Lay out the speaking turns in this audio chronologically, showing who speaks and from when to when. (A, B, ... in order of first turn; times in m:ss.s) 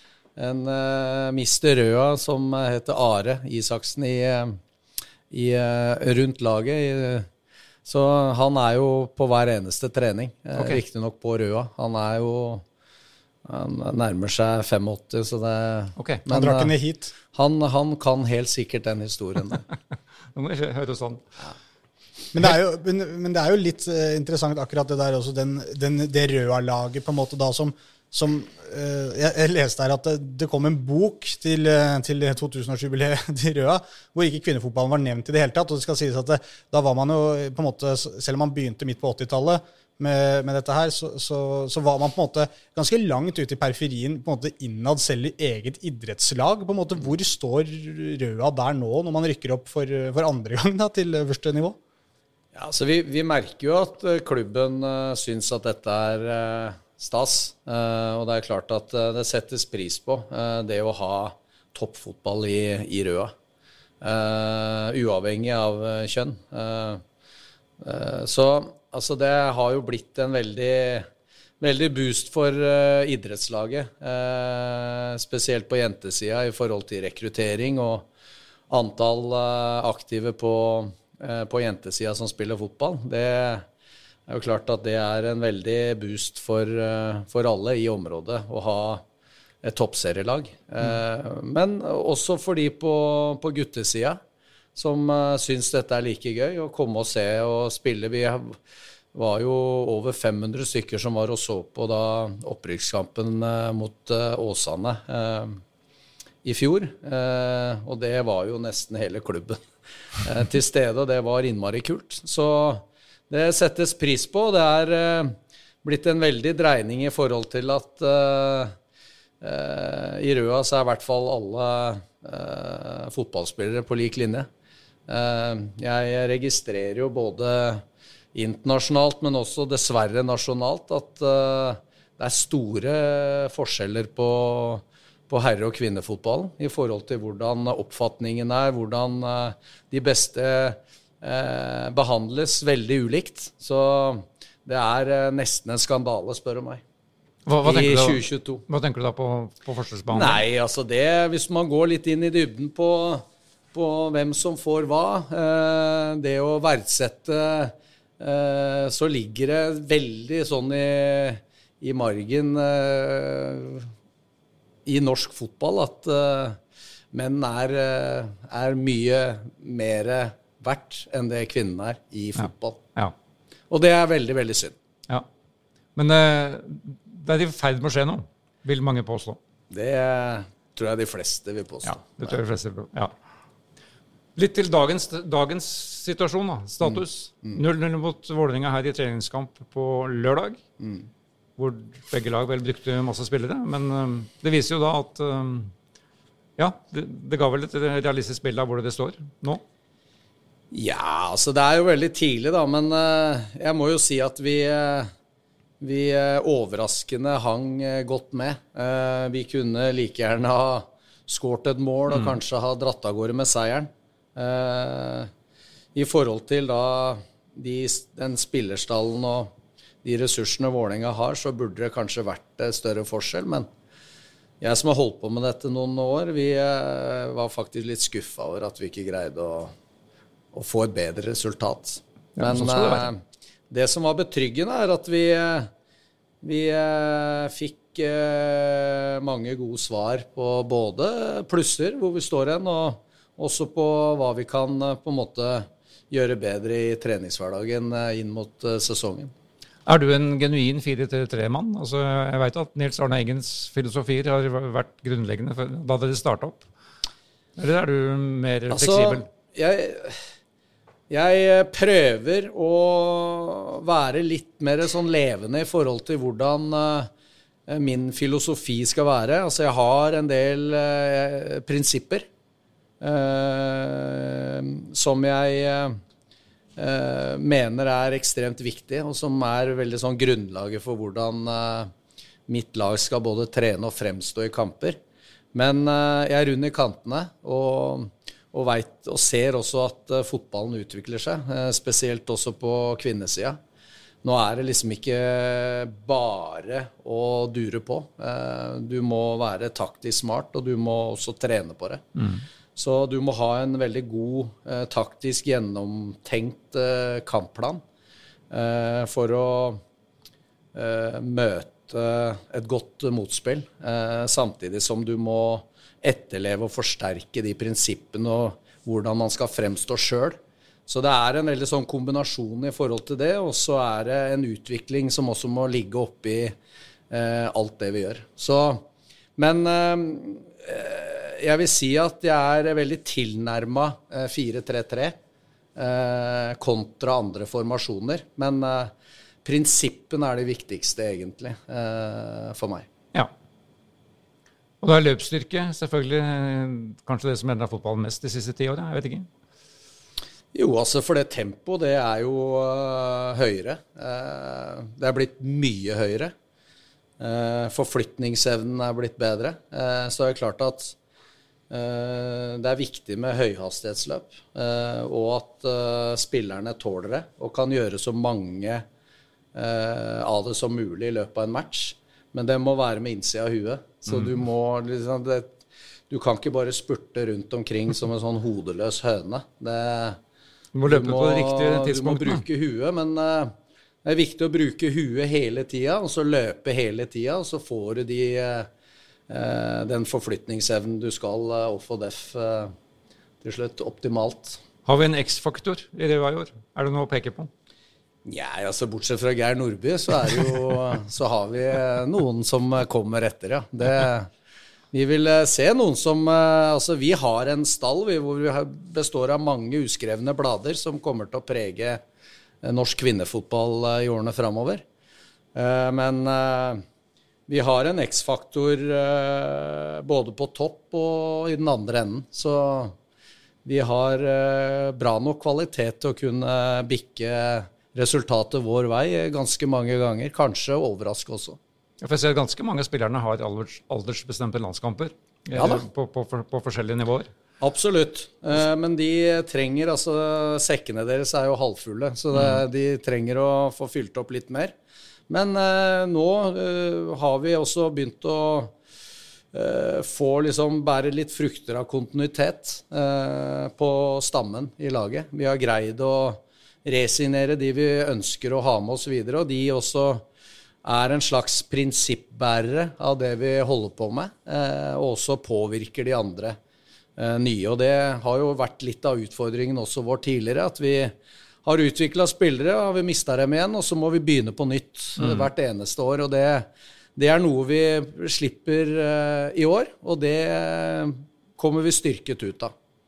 0:00.4-0:04.6 A
0:05.3-0:07.3 A
0:07.8-0:12.6 A
0:13.4-0:16.7 A
0:16.0-0:16.2 B
0:16.3-0:17.1 C
0:17.3-0:19.6 A
0:20.3-0:21.2 B
0:22.3-0:51.8 C
0:52.5-1:03.3 A
1:04.0-1:07.0 A
1:07.8-1:11.1 A
1:11.6-1:18.0 A
1:18.7-1:23.6 A
1:24.3-1:29.0 A
1:29.6-1:34.2 A
1:34.7-1:38.6 A
1:39.1-1:45.6 A
1:46.4-1:49.6 A
1:50.2-1:58.7 A
1:59.4-2:04.5 A
2:05.1-2:07.8 A
2:08.3-2:26.8 A
2:27.4-2:30.4 B
2:27.6-2:28.6 A
2:30.1-2:43.9 A
2:44.8-2:46.6 A
2:47.1-2:52.8 A
2:52.4-2:53.1 B
2:53.7-2:54.7 A
2:56.0-2:59.4 B
2:59.7-3:02.3 A
3:01.8-3:03.1 B
3:04.4-3:10.6 B
3:10.8-3:11.1 A
3:11.6-3:15.7 B
3:16.6-3:19.6 B
3:20.7-3:25.1 A
3:25.8-3:35.3 A
3:35.9-3:39.5 A
3:40.0-3:43.7 A
3:44.6-3:49.7 A
3:50.5-3:53.2 A
3:52.4-3:53.1 B
3:53.7-3:55.7 A
3:56.4-4:09.3 A
4:09.8-4:16.7 B
4:17.6-4:19.2 B
4:18.7-4:20.2 A
4:21.1-4:27.1 A
4:27.7-4:32.2 A
4:33.0-4:36.0 A
4:36.8-4:41.9 A
4:42.5-4:45.0 A
4:45.5-4:53.6 A
4:54.2-5:02.0 A
5:02.2-5:02.4 B
5:02.8-5:07.8 A
5:08.5-5:09.8 A
5:10.7-5:26.5 A
5:27.1-5:28.8 A
5:29.4-5:35.2 A
5:35.8-5:38.9 A
5:39.4-5:42.8 A
5:44.8-5:49.3 B
5:50.5-5:56.3 A
5:57.2-6:00.9 A
6:01.7-6:08.8 A
6:09.5-6:15.5 A
6:16.1-6:20.2 A
6:20.7-6:22.4 B
6:20.8-6:23.5 A
6:24.0-6:28.7 A
6:29.3-6:32.7 A
6:33.4-6:34.6 A
6:34.8-6:37.5 B
6:38.2-6:44.3 A
6:44.9-6:52.0 A
6:52.6-6:54.8 A
6:55.5-6:56.8 A
6:57.5-7:02.9 A
7:03.6-7:11.6 A
7:12.0-7:17.3 B
7:15.5-7:15.8 A
7:17.6-7:24.7 A
7:22.4-7:22.6 B
7:25.3-7:28.7 A
7:29.5-7:40.2 A
7:40.8-7:46.6 A
7:47.2-7:51.1 A
7:51.6-8:02.7 A
7:55.2-7:55.4 B